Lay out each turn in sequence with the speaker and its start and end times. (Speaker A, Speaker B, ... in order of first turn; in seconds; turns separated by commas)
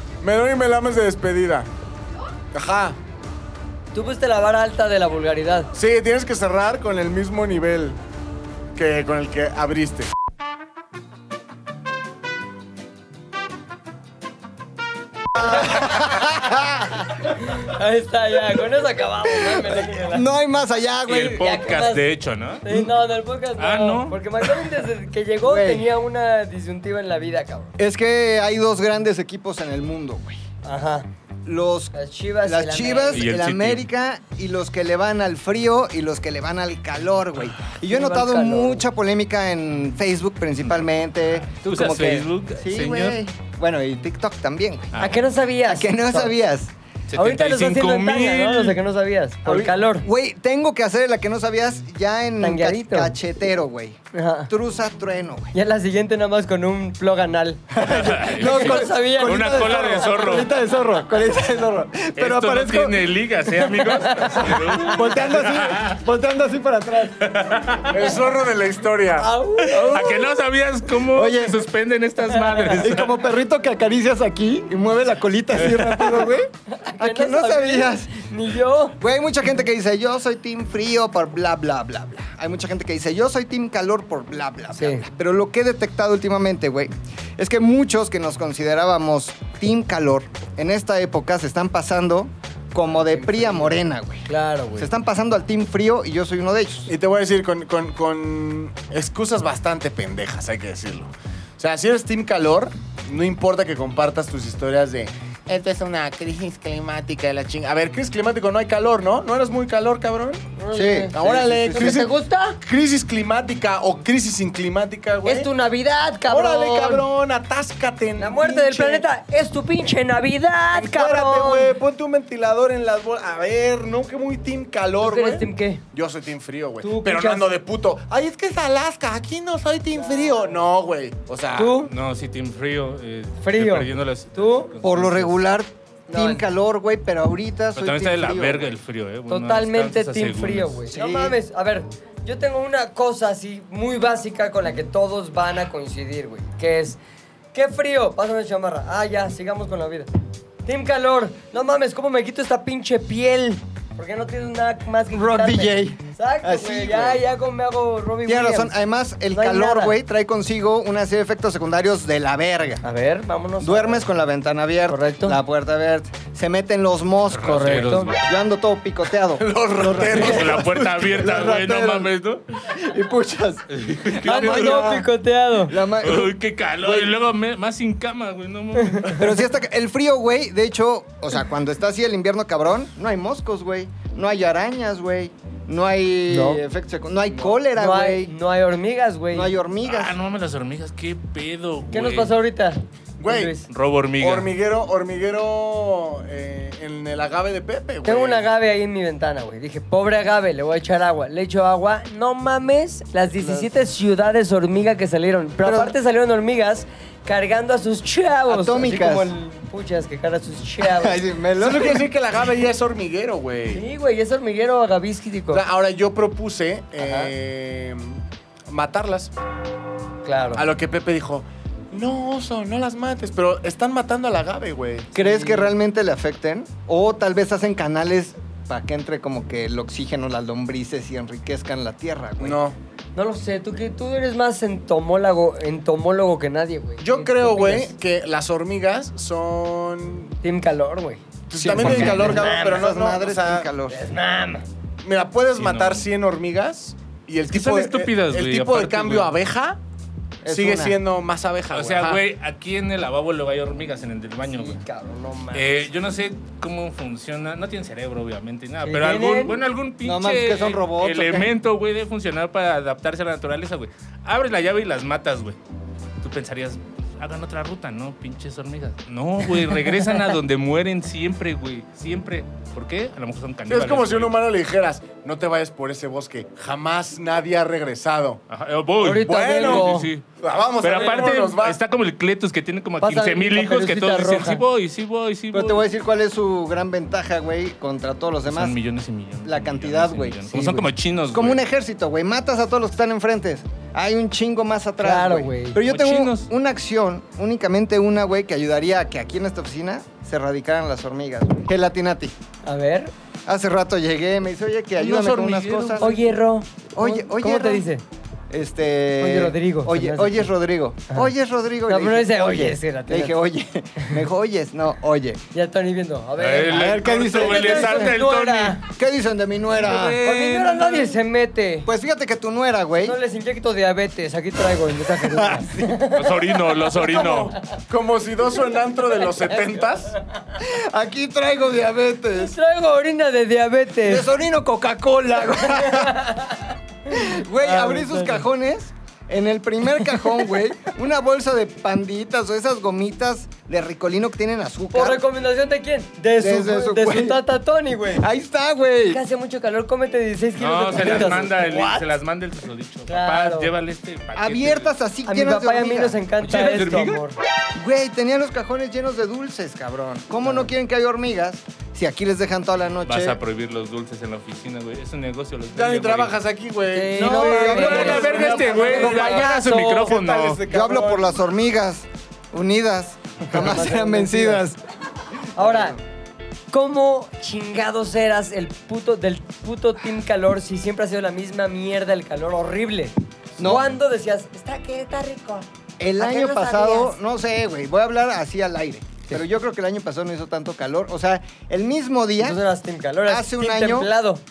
Speaker A: 0.2-1.7, Speaker A: 2.5-3.0, Speaker B: 3.9-5.7, Speaker A: 5.8-8.0, Speaker A: 8.8-10.1, Speaker C: 15.6-16.9, Speaker B: 17.2-20.3, Speaker C: 19.6-21.5, Speaker D: 21.1-22.6, Speaker B: 21.3-22.1, Speaker B: 22.6-27.7, Speaker D: 23.6-24.4, Speaker C: 25.4-25.9, Speaker C: 27.8-30.4, Speaker B: 30.6-31.1, Speaker C: 31.4-44.9, Speaker B: 31.9-33.2, Speaker D: 33.1-33.9, Speaker B: 37.9-38.8, Speaker D: 41.5-43.2, Speaker D: 44.9-45.2, Speaker B: 45.0-46.4, Speaker C: 45.7-46.7, Speaker D: 47.1-48.8, Speaker B: 47.2-50.1, Speaker C: 49.5-55.5, Speaker B: 52.4-53.1, Speaker B: 54.1-54.5, Speaker B: 55.5-57.6, Speaker C: 57.7-63.1, Speaker D: 57.8-60.5, Speaker B: 58.4-60.0, Speaker D: 62.2-66.0, Speaker B: 63.8-64.6, Speaker C: 64.5-67.4, Speaker D: 67.3-68.0, Speaker A: 67.9-69.3, Speaker B: 69.2-70.3, Speaker D: 69.7-73.2, Speaker C: 71.1-71.6, Speaker B: 72.3-72.8, Speaker C: 72.8-78.1, Speaker B: 76.7-79.0, Speaker C: 79.0-96.9, Speaker B: 84.8-85.1, Speaker B: 93.0-94.9, Speaker A: 96.9-110.4, Speaker B: 110.6-111.2, Speaker C: 110.7-112.0, Speaker A: 111.1-115.5, Speaker B: 111.7-112.6, Speaker B: 115.2-117.1, Speaker A: 116.3-119.0, Speaker B: 118.2-121.7, Speaker A: 120.7-131.8, Speaker B: 125.0-125.8, Speaker B: 126.8-127.5, Speaker B: 131.6-131.9, Speaker D: 131.8-135.4, Speaker B: 133.4-134.7, Speaker C: 134.8-138.7, Speaker B: 136.1-136.5, Speaker D: 137.8-140.8, Speaker B: 139.3-147.0, Speaker C: 140.9-141.4, Speaker B: 147.5-150.1, Speaker B: 150.7-158.8, Speaker C: 155.1-157.2, Speaker C: 158.2-162.8, Speaker B: 159.3-160.0, Speaker B: 162.8-164.1, Speaker C: 163.6-172.0, Speaker B: 164.9-165.4, Speaker D: 167.3-168.2, Speaker B: 167.4-168.1, Speaker A: 169.4-171.9, Speaker D: 169.9-172.5, Speaker C: 172.8-173.7, Speaker D: 173.7-175.0, Speaker C: 174.2-175.1, Speaker B: 174.2-175.7, Speaker C: 175.7-177.1, Speaker D: 176.0-179.4, Speaker B: 178.8-179.1, Speaker C: 179.2-188.3, Speaker B: 186.3-186.6, Speaker B: 187.3-189.6, Speaker C: 189.3-190.2, Speaker D: 189.8-192.3, Speaker B: 191.9-193.7, Speaker A: 193.2-193.6, Speaker D: 193.7-194.5, Speaker A: 194.2-198.5, Speaker B: 198.0-211.2, Speaker C: 203.4-203.7, Speaker C: 205.6-205.9, Speaker C: 208.5-209.3, Speaker C: 210.8-212.1, Speaker A: 211.6-213.8, Speaker B: 213.7-215.6, Speaker A: 215.5-219.3, Speaker B: 217.0-217.3, Speaker B: 220.2-220.7, Speaker A: 220.6-225.1, Speaker B: 225.2-225.7, Speaker C: 225.2-232.6, Speaker A: 232.4-232.8, Speaker B: 233.2-237.9, Speaker A: 237.0-240.3, Speaker B: 240.4-243.0, Speaker A: 241.5-243.7, Speaker C: 241.6-244.0, Speaker B: 243.9-244.7, Speaker A: 245.0-249.8, Speaker D: 245.5-246.1, Speaker D: 247.5-249.3, Speaker C: 250.4-251.0, Speaker A: 250.5-252.2, Speaker D: 251.7-254.8, Speaker B: 254.4-255.9, Speaker D: 255.5-265.6, Speaker B: 258.8-259.6, Speaker C: 260.0-261.5, Speaker D: 266.2-274.4, Speaker B: 269.7-270.3, Speaker A: 273.7-278.4, Speaker D: 278.5-280.3, Speaker B: 279.0-280.1, Speaker A: 279.2-281.8, Speaker D: 280.8-285.9, Speaker B: 283.0-284.6, Speaker C: 285.5-288.8, Speaker D: 288.4-291.6, Speaker C: 289.4-302.4, Speaker B: 295.0-295.8, Speaker D: 295.8-296.5, Speaker B: 302.6-303.1, Speaker C: 303.5-306.2, Speaker D: 305.0-306.1, Speaker B: 306.0-308.0, Speaker C: 306.9-307.9, Speaker C: 308.5-315.4, Speaker B: 309.2-310.5, Speaker B: 311.9-313.4, Speaker B: 315.5-318.8, Speaker D: 316.4-318.8, Speaker C: 316.7-318.1, Speaker C: 319.0-320.2, Speaker D: 319.7-321.2, Speaker B: 320.2-321.9, Speaker C: 321.9-323.2, Speaker B: 323.0-326.4, Speaker C: 325.2-326.1, Speaker D: 326.1-327.6, Speaker A: 327.1-330.2, Speaker B: 329.3-329.9, Speaker C: 330.6-332.6, Speaker B: 332.3-334.3, Speaker C: 334.0-336.2, Speaker B: 335.7-338.4, Speaker C: 337.1-345.2, Speaker B: 344.9-348.2, Speaker C: 346.4-347.4, Speaker C: 348.1-349.2, Speaker B: 349.1-352.1, Speaker D: 350.6-354.9, Speaker B: 353.1-353.7, Speaker C: 354.3-356.2, Speaker B: 355.3-357.4, Speaker D: 356.4-357.2, Speaker C: 357.8-363.4, Speaker D: 363.1-366.4, Speaker A: 365.7-369.5, Speaker B: 366.9-371.2, Speaker C: 367.2-368.8, Speaker D: 367.2-370.6, Speaker C: 370.7-374.8, Speaker B: 373.5-374.6, Speaker C: 375.6-375.9, Speaker B: 375.6-376.0, Speaker B: 376.7-387.2, Speaker C: 383.6-383.9, Speaker C: 386.0-392.6, Speaker B: 392.4-394.4, Speaker C: 393.2-394.1